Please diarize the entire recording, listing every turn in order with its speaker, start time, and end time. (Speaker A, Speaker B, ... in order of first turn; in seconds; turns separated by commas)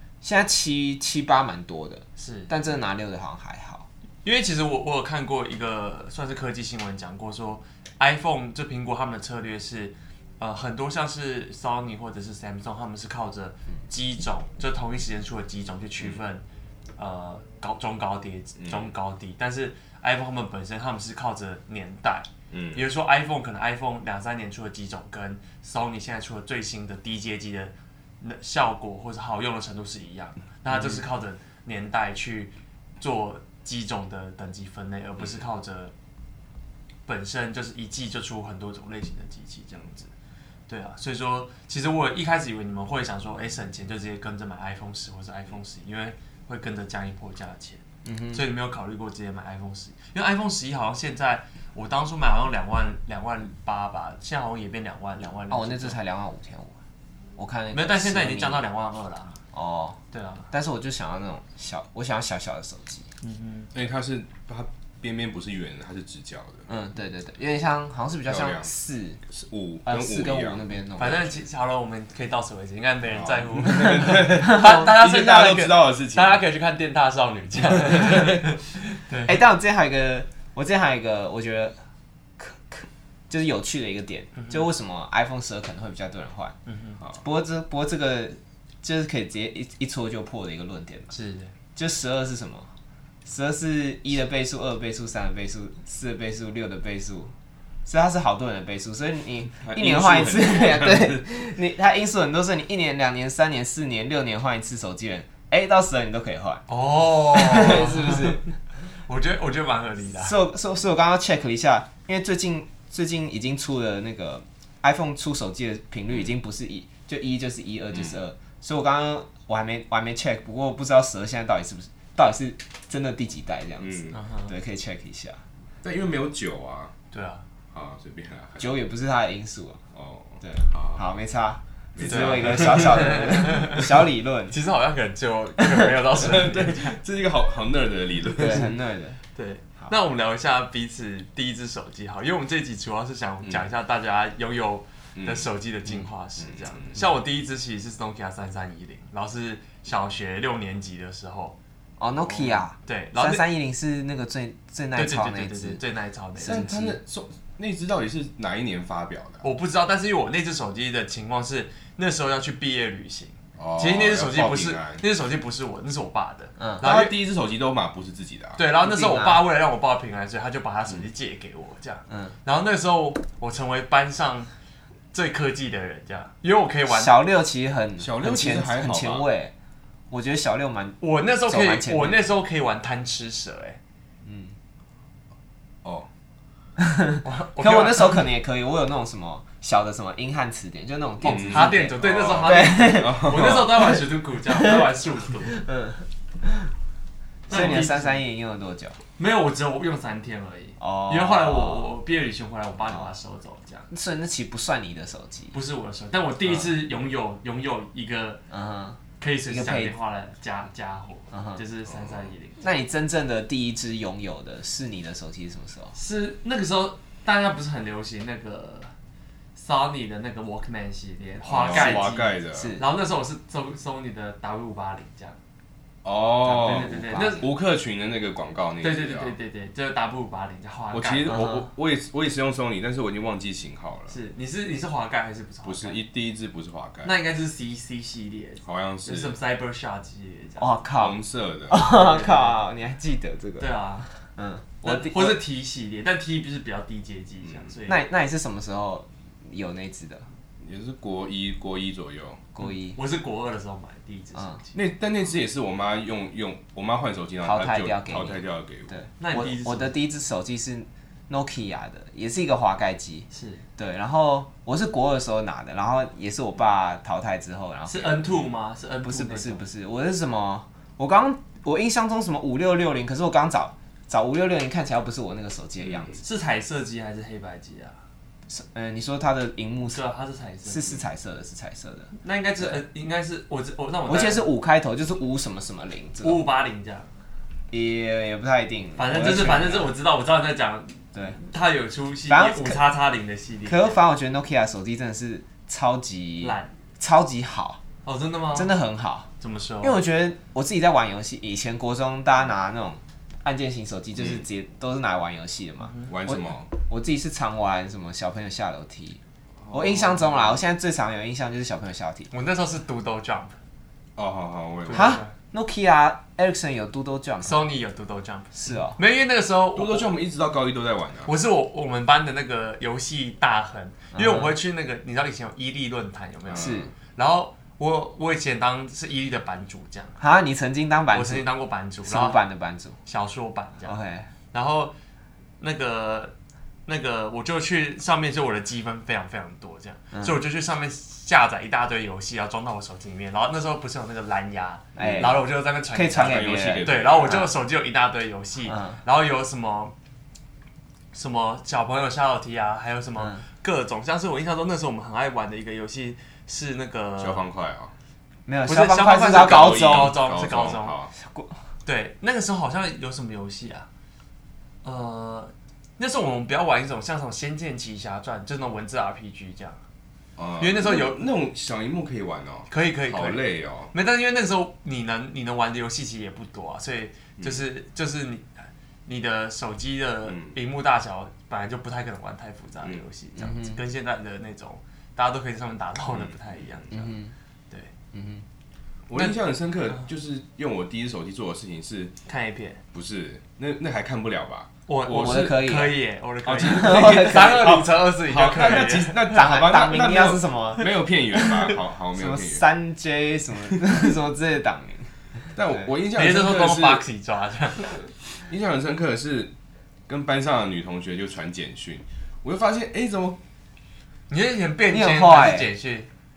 Speaker A: 0.2-3.9, Speaker B: 2.2-2.5, Speaker B: 4.2-16.4, Speaker B: 17.0-35.9, Speaker C: 18.6-18.9, Speaker C: 22.5-22.9, Speaker B: 37.1-40.1, Speaker B: 40.7-56.0, Speaker A: 48.0-48.5, Speaker A: 55.5-56.8, Speaker A: 57.4-58.6, Speaker B: 57.7-59.4, Speaker A: 59.5-60.0, Speaker B: 60.1-60.5, Speaker A: 60.5-63.1, Speaker B: 63.2-63.7, Speaker C: 63.7-66.7, Speaker A: 66.7-69.2, Speaker C: 68.3-68.7, Speaker C: 69.3-70.6, Speaker A: 69.8-71.3, Speaker B: 71.0-79.4, Speaker C: 73.1-76.4, Speaker A: 74.4-74.9, Speaker A: 79.2-81.8, Speaker A: 82.4-86.5, Speaker B: 84.4-84.7, Speaker B: 86.7-87.0, Speaker A: 87.2-91.1, Speaker B: 91.1-91.5, Speaker A: 91.8-92.7, Speaker A: 93.3-97.3, Speaker A: 97.9-106.6, Speaker C: 99.6-101.2, Speaker B: 106.7-108.5, Speaker A: 107.3-108.4, Speaker B: 109.0-110.4, Speaker A: 110.2-125.4, Speaker C: 117.9-118.2, Speaker C: 123.8-124.2, Speaker B: 124.1-124.5, Speaker C: 125.8-126.9, Speaker B: 127.1-127.4, Speaker C: 127.7-128.8, Speaker A: 128.6-129.8, Speaker C: 129.9-131.0, Speaker A: 130.4-134.6, Speaker C: 131.9-133.2, Speaker B: 132.0-133.9, Speaker B: 134.5-137.0, Speaker C: 136.2-138.8, Speaker A: 138.3-139.2, Speaker B: 139.3-151.6, Speaker C: 145.2-145.5, Speaker C: 146.4-147.0, Speaker A: 152.0-155.8, Speaker B: 152.2-153.4, Speaker B: 155.0-156.9, Speaker A: 156.4-157.0, Speaker C: 156.4-159.4, Speaker B: 159.4-167.1, Speaker C: 163.6-165.0, Speaker A: 166.6-166.8, Speaker C: 166.8-168.6, Speaker B: 168.6-174.5, Speaker A: 168.8-169.4, Speaker A: 172.1-172.3, Speaker B: 175.1-177.2, Speaker A: 176.9-179.5, Speaker C: 178.0-179.3, Speaker A: 180.1-182.2, Speaker B: 181.0-183.8, Speaker A: 184.2-184.6, Speaker A: 186.8-194.0, Speaker B: 187.2-188.2, Speaker C: 191.2-193.9, Speaker B: 191.3-195.6, Speaker A: 195.5-196.7, Speaker B: 197.5-198.2, Speaker A: 197.5-199.0, Speaker B: 199.2-203.9, Speaker A: 200.8-201.9, Speaker A: 203.9-205.5, Speaker B: 205.5-208.4, Speaker A: 208.5-209.9, Speaker B: 209.2-212.6, Speaker A: 211.3-211.6, Speaker C: 211.9-212.3, Speaker A: 212.6-215.9, Speaker B: 215.9-218.9, Speaker B: 219.6-225.4, Speaker C: 221.4-222.8, Speaker A: 221.6-222.9, Speaker C: 226.0-229.3, Speaker A: 226.4-227.5, Speaker B: 226.5-227.5, Speaker B: 228.8-231.4, Speaker C: 230.9-234.2, Speaker A: 231.3-231.7, Speaker B: 234.1-236.0, Speaker C: 235.7-237.1, Speaker B: 237.0-240.7, Speaker C: 238.6-239.4, Speaker A: 240.6-241.2, Speaker C: 240.9-241.8, Speaker A: 241.7-245.4, Speaker B: 241.8-242.6, Speaker B: 243.6-244.1, Speaker B: 244.8-248.0, Speaker C: 247.4-247.7, Speaker A: 247.9-250.3, Speaker C: 250.6-252.4, Speaker A: 252.5-253.0, Speaker B: 252.6-254.7, Speaker C: 254.7-259.0, Speaker A: 257.4-268.3, Speaker B: 259.2-260.0, Speaker B: 263.3-263.6, Speaker B: 267.9-269.6, Speaker A: 269.0-276.2, Speaker C: 275.8-276.2, Speaker B: 276.2-278.0, Speaker A: 278.5-280.0, Speaker B: 279.9-280.9, Speaker A: 280.7-282.8, Speaker B: 282.2-284.4, Speaker A: 284.1-286.4, Speaker B: 286.2-287.1, Speaker A: 287.7-289.9, Speaker B: 289.0-294.0, Speaker A: 292.3-292.8, Speaker A: 293.7-297.8, Speaker B: 296.4-296.7, Speaker B: 298.1-298.7, Speaker A: 298.5-299.3, Speaker B: 299.4-300.0, Speaker A: 299.8-309.2, Speaker C: 304.2-304.4, Speaker B: 305.8-306.1, Speaker C: 306.1-306.7, Speaker C: 309.6-310.6, Speaker A: 309.7-312.3, Speaker B: 312.3-313.6, Speaker C: 314.2-315.2, Speaker B: 314.9-315.3, Speaker A: 314.9-317.6, Speaker B: 317.4-320.1, Speaker A: 318.5-319.0, Speaker C: 319.8-321.3, Speaker B: 321.3-330.2, Speaker A: 324.1-324.5, Speaker C: 326.5-326.9, Speaker A: 326.5-326.9, Speaker A: 330.2-331.5, Speaker B: 331.1-332.4, Speaker A: 332.1-333.0, Speaker B: 333.1-333.9, Speaker A: 333.9-334.3, Speaker B: 334.5-334.9, Speaker B: 335.6-336.3, Speaker B: 336.9-349.9, Speaker A: 340.1-340.4, Speaker A: 345.0-345.4, Speaker C: 345.0-345.3, Speaker A: 345.9-347.5, Speaker C: 346.2-347.5, Speaker A: 348.7-349.0, Speaker B: 351.1-357.4, Speaker C: 357.2-357.9, Speaker A: 358.5-360.2, Speaker B: 358.7-360.9, Speaker C: 359.2-361.1, Speaker A: 361.2-361.6, Speaker B: 361.9-363.9, Speaker B: 364.8-369.8, Speaker C: 370.4-373.9, Speaker B: 370.6-371.3, Speaker B: 372.7-387.1, Speaker C: 377.4-377.6, Speaker C: 380.3-380.6, Speaker A: 383.4-383.8, Speaker A: 386.9-387.3, Speaker A: 388.1-388.4, Speaker C: 389.1-392.1, Speaker B: 392.3-392.8, Speaker C: 392.9-395.6, Speaker B: 394.9-399.2, Speaker A: 395.1-396.0, Speaker C: 396.5-402.6, Speaker A: 396.6-397.9, Speaker A: 398.7-405.1, Speaker C: 405.5-407.0, Speaker B: 406.1-407.9, Speaker C: 408.4-409.5, Speaker C: 410.1-413.4, Speaker B: 414.3-416.1, Speaker A: 414.9-415.7